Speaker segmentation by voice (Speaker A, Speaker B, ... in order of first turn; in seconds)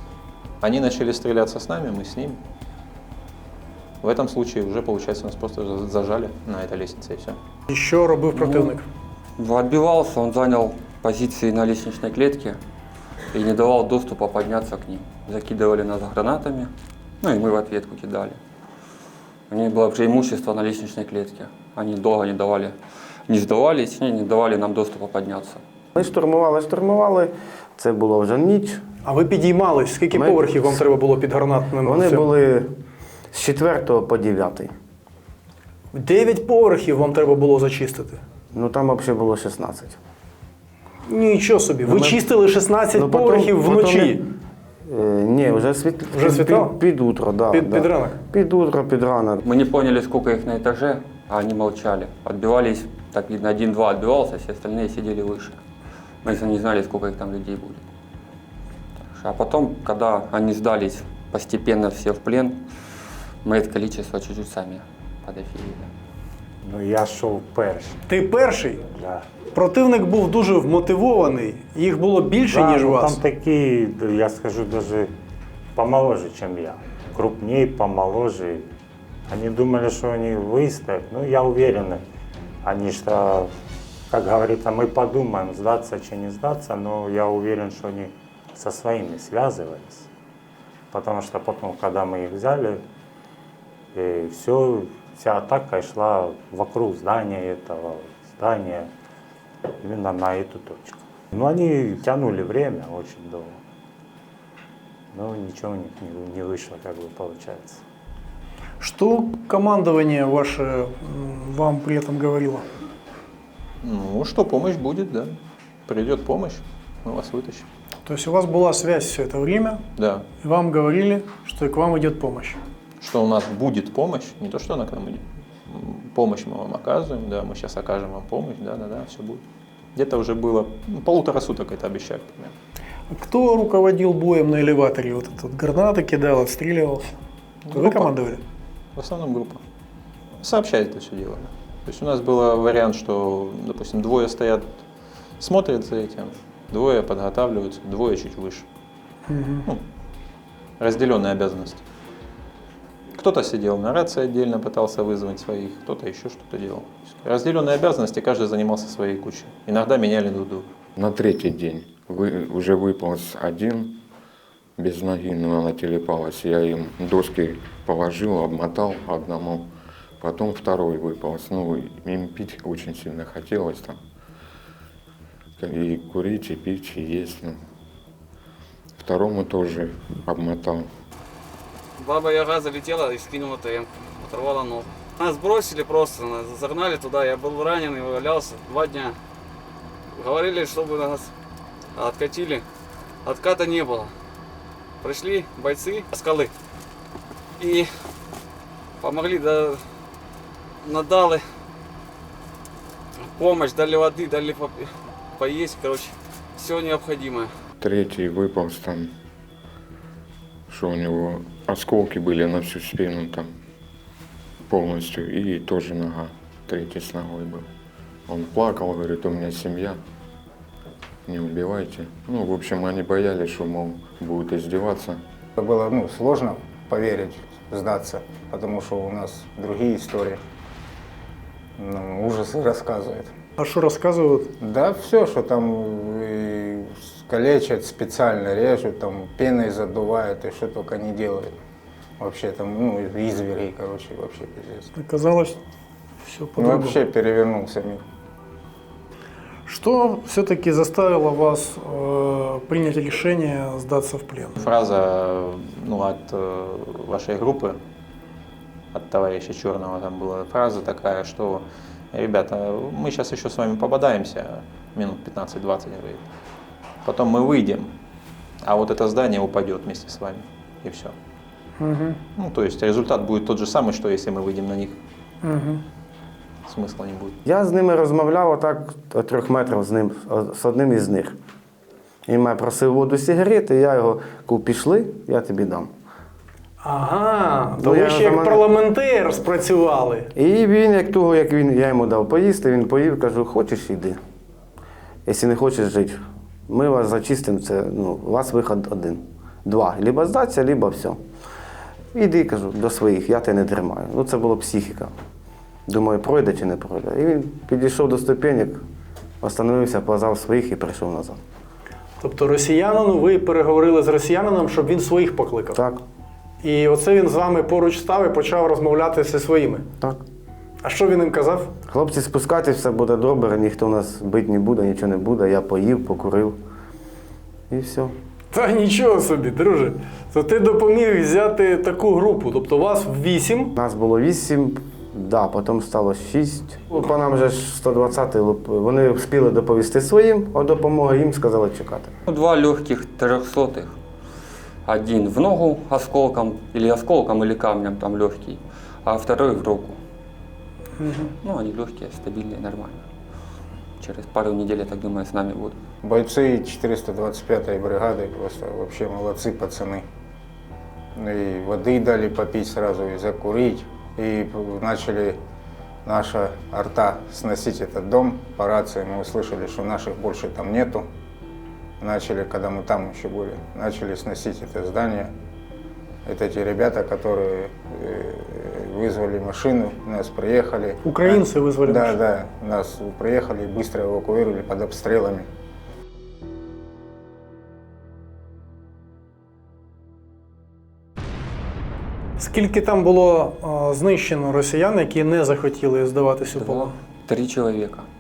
Speaker A: 0.6-2.4, 4.0-7.4, 113.8-117.7, 120.0-120.2, 123.0-129.4, 130.0-132.5, 137.7-138.1, 139.0-139.6, 140.4-144.7, 145.4-148.7, 150.8-151.8, 153.1-160.7, 254.6-257.8, 258.9-266.3, 267.0-267.9, 268.6-271.1, 272.4-275.0, 276.7-277.3
Speaker B: 7.7-8.9, 29.0-32.3, 35.9-38.2, 41.1-44.2, 46.1-46.8, 47.5-48.2, 68.1-68.8, 69.5-73.2, 108.8-112.7, 118.1-119.8, 120.4-122.6, 133.1-137.2, 137.7-138.4, 149.3-149.7, 233.6-234.5, 244.9-245.6, 246.2-247.0, 249.7-254.6, 271.8-272.2, 275.4-275.8, 286.8-290.3, 312.2-315.8, 316.6-319.9, 320.8-321.7, 328.5-333.7, 351.0-351.3, 381.0-382.2, 392.4-396.9
Speaker C: 8.3-8.7, 9.4-12.6, 13.3-16.7, 17.2-18.4, 19.5-22.8, 23.3-25.6, 49.5-55.6, 56.2-57.8, 59.0-62.6, 63.4-65.9, 342.3-343.9, 344.9-350.0, 351.4-353.0, 354.0-355.8, 396.6-398.1
Speaker D: 25.9-28.8, 30.1-30.9, 31.8-32.7, 33.3-34.7, 38.5-40.0, 41.8-42.2, 42.9-44.2, 44.8-49.4, 277.4-281.4, 282.3-285.9, 287.8-288.6, 290.4-294.2, 295.3-301.2, 302.1-305.1, 305.9-308.8, 309.4-311.4, 315.7-316.0, 321.9-326.6, 327.7-328.1, 333.8-342.1
Speaker E: 66.6-68.0, 68.9-69.3, 72.4-75.1, 75.8-78.7, 79.3-82.0, 82.6-83.5, 84.1-90.1, 90.9-92.8, 93.9-98.9, 99.7-103.6, 105.1-107.8
Speaker F: 161.0-164.0, 164.8-174.0, 175.6-177.6, 179.0-180.9, 207.8-209.1, 210.7-213.5, 214.7-217.7, 218.3-220.0, 221.3-225.2
Speaker G: 182.0-189.2, 190.1-191.3, 191.9-192.7, 193.2-194.1, 195.0-196.5, 197.6-198.1, 199.0-199.9, 200.8-201.6, 203.2-207.6
Speaker H: 225.6-230.4, 231.8-233.3, 234.6-241.6, 242.2-244.9, 246.6-248.0, 356.0-360.0, 361.2-365.4, 366.1-371.1, 372.0-375.3, 376.2-385.5